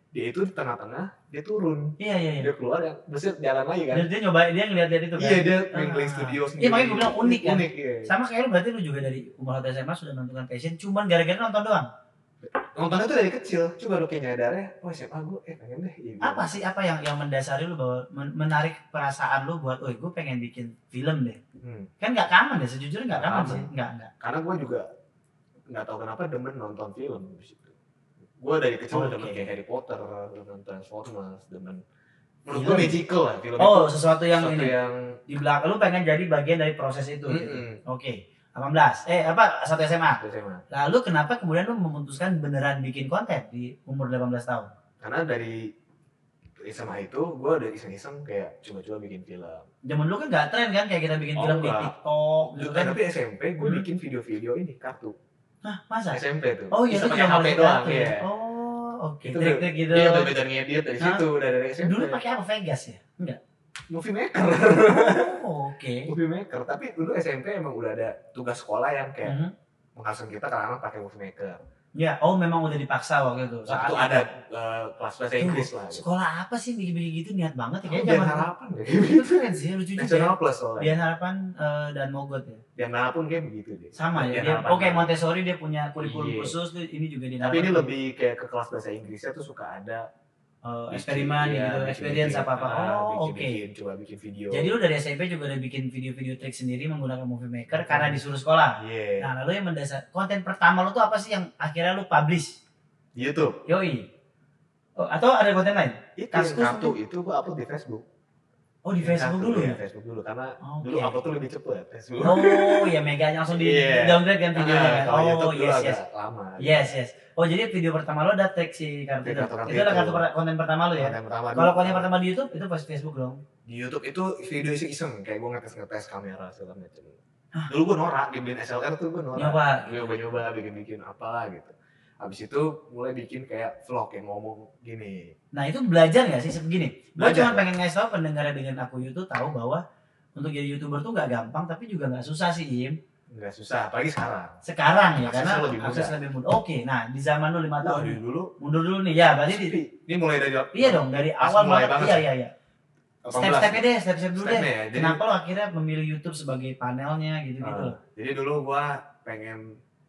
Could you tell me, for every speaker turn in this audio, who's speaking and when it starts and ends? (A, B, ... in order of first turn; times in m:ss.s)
0:00.1-0:04.1 A
0:02.0-0:02.5 B
0:03.9-0:11.9 B
0:05.2-0:08.1 A
0:12.6-0:16.6 A
0:16.2-0:21.4 B
0:21.6-0:21.9 A
0:22.0-0:24.1 B
0:23.1-0:23.7 A
0:24.2-0:24.9 A
0:25.7-0:27.8 A
0:28.4-0:31.8 A
0:28.9-0:29.5 B
0:32.5-0:35.2 A
0:32.5-0:33.0 B
0:33.6-0:34.8 B
0:35.3-0:44.7 B
0:37.3-0:37.8 A
0:40.2-0:40.6 A
0:45.0-0:45.7 A
0:46.6-0:49.7 A
0:49.8-0:53.0 B
0:51.4-0:51.9 A
0:52.5-0:55.2 A
0:53.6-0:53.8 B
0:55.6-1:00.3 B
0:56.1-0:58.3 A
0:59.2-1:02.2 A
1:01.0-1:01.2 B
1:01.8-1:03.4 B
1:03.9-1:05.4 A
1:04.5-1:06.1 B
1:06.1-1:09.4 A
1:09.2-1:09.5 B
1:10.0-1:11.6 A
1:12.0-1:14.3 B
1:13.7-1:16.0 A
1:15.4-1:22.6 B
1:17.9-1:21.0 A
1:22.8-1:25.1 A
1:24.0-1:27.9 B
1:26.0-1:26.6 A
1:27.4-1:30.1 A
1:30.6-1:33.6 B
1:30.9-1:34.8 A
1:34.5-1:42.6 B
1:37.7-1:38.2 A
1:38.8-1:39.3 A
1:43.2-1:43.6 A
1:43.7-1:44.1 B
1:45.0-1:47.0 B
1:46.2-1:48.0 A
1:48.8-1:49.8 B
1:49.0-1:53.0 A
1:50.6-1:51.2 B
1:52.2-1:56.0 B
1:53.5-1:56.9 A
1:56.6-2:03.4 B
1:59.2-2:00.3 A
2:01.0-2:02.1 A
2:03.7-2:07.2 A
2:07.7-2:15.4 A
2:09.4-2:10.2 B
2:15.5-2:19.8 B
2:17.2-2:17.7 A
2:20.4-2:23.0 B
2:23.3-2:24.6 A
2:24.6-2:29.8 B
2:25.2-2:26.1 A
2:27.8-2:28.5 A
2:29.4-2:32.2 A
2:30.7-2:32.5 B
2:33.2-2:35.2 A
2:33.3-2:38.0 B
2:37.6-2:39.8 A